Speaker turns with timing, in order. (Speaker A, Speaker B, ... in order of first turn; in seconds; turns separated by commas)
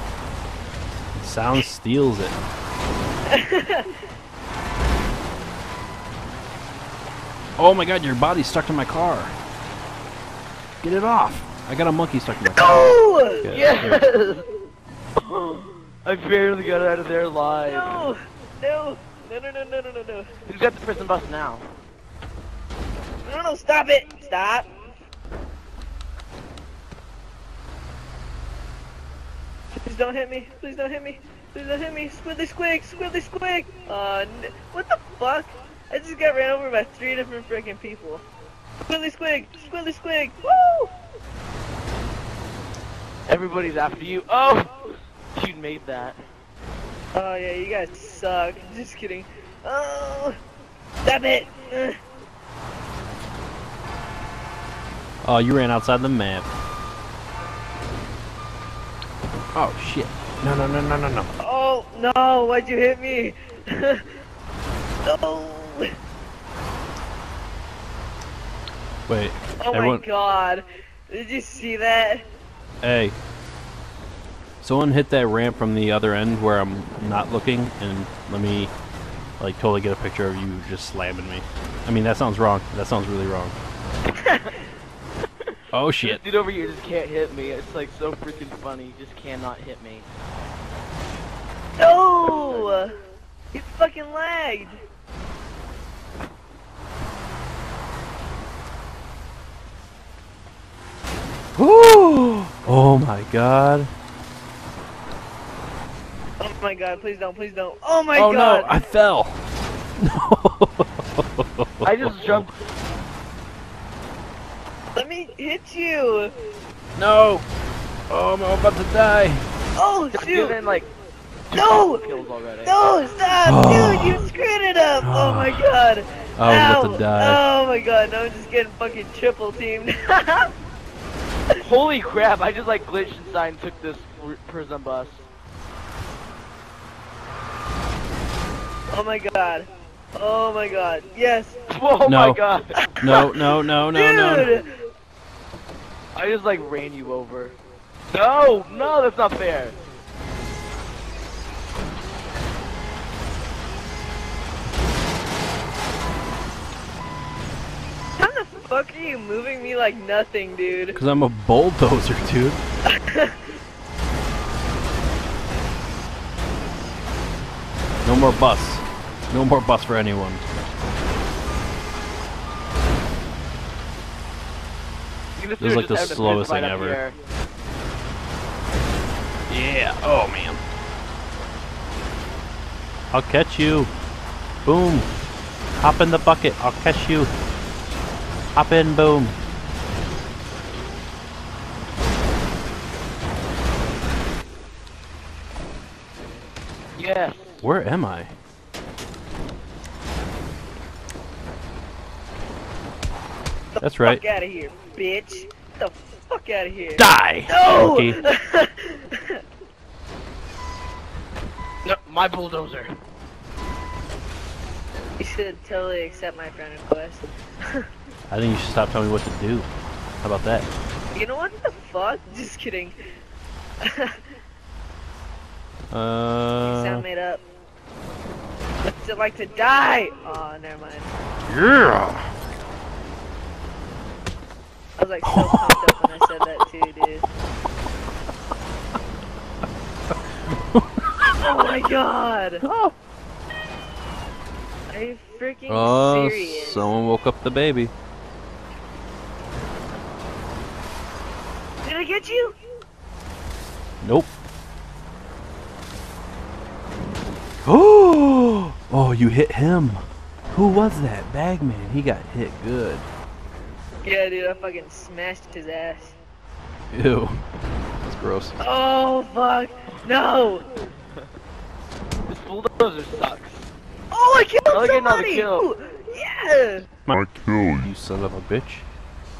Speaker A: 1.1-2.4, Speaker B: 3.3-3.9, Speaker A: 7.6-9.3, Speaker A: 10.8-14.0, Speaker B: 12.5-13.4, Speaker C: 13.5-14.4, Speaker C: 15.2-18.0, Speaker B: 17.6-20.3, Speaker C: 20.5-21.7, Speaker B: 23.2-24.7, Speaker B: 29.8-38.2, Speaker B: 38.9-40.9, Speaker C: 43.3-46.2, Speaker B: 47.1-50.4, Speaker B: 51.0-52.0, Speaker A: 55.2-56.5, Speaker A: 59.5-61.3, Speaker B: 61.4-64.1, Speaker B: 65.0-65.9, Speaker A: 69.1-70.0, Speaker B: 69.6-72.2, Speaker A: 72.8-73.2, Speaker A: 74.6-78.7, Speaker A: 79.4-83.5, Speaker A: 85.7-86.2, Speaker C: 86.0-90.1, Speaker B: 91.8-92.9, Speaker C: 92.2-92.8, Speaker B: 93.5-94.8, Speaker A: 101.6-103.9, Speaker B: 106.4-108.7, Speaker A: 108.1-109.4, Speaker A: 110.0-112.5, Speaker C: 111.8-112.5, Speaker B: 114.9-116.3, Speaker A: 117.0-117.5, Speaker A: 118.1-119.4, Speaker B: 119.8-120.5, Speaker C: 120.1-120.9, Speaker C: 121.5-122.8, Speaker B: 121.5-122.0, Speaker B: 122.6-130.5, Speaker A: 123.4-124.2, Speaker A: 125.0-125.7, Speaker A: 126.4-127.4, Speaker C: 131.6-135.3, Speaker B: 138.9-141.6, Speaker C: 141.7-142.8, Speaker A: 142.0-142.4, Speaker B: 142.8-143.4, Speaker A: 143.0-144.5, Speaker B: 143.9-144.7, Speaker C: 146.1-147.6, Speaker C: 148.1-149.8, Speaker B: 158.2-161.0, Speaker A: 160.9-162.6, Speaker B: 162.9-163.4, Speaker A: 168.0-170.4, Speaker C: 175.3-177.2, Speaker A: 175.6-177.0, Speaker A: 179.5-180.6, Speaker A: 183.1-183.9, Speaker A: 184.7-185.1, Speaker A: 185.8-187.3, Speaker A: 188.6-189.4, Speaker C: 197.0-197.6, Speaker A: 197.6-198.3, Speaker B: 203.7-209.4, Speaker A: 203.8-204.2, Speaker A: 207.0-208.2, Speaker C: 211.8-212.9, Speaker B: 215.2-217.8, Speaker A: 218.3-219.7, Speaker A: 220.2-220.7, Speaker B: 221.1-222.9, Speaker B: 223.8-224.2, Speaker A: 225.9-227.1, Speaker B: 226.6-227.4, Speaker B: 228.8-231.1, Speaker A: 231.5-232.3, Speaker B: 235.0-237.2, Speaker A: 235.2-236.1, Speaker A: 240.5-241.3, Speaker B: 241.4-242.6, Speaker A: 242.6-242.9, Speaker B: 244.9-246.9, Speaker A: 245.7-247.9, Speaker B: 251.8-252.6, Speaker A: 254.0-254.3, Speaker A: 257.6-263.1, Speaker B: 264.0-266.2, Speaker A: 266.9-267.4, Speaker A: 268.0-268.6, Speaker B: 268.6-270.7, Speaker C: 272.3-273.7, Speaker B: 274.1-276.9, Speaker C: 274.7-275.7, Speaker A: 277.1-278.8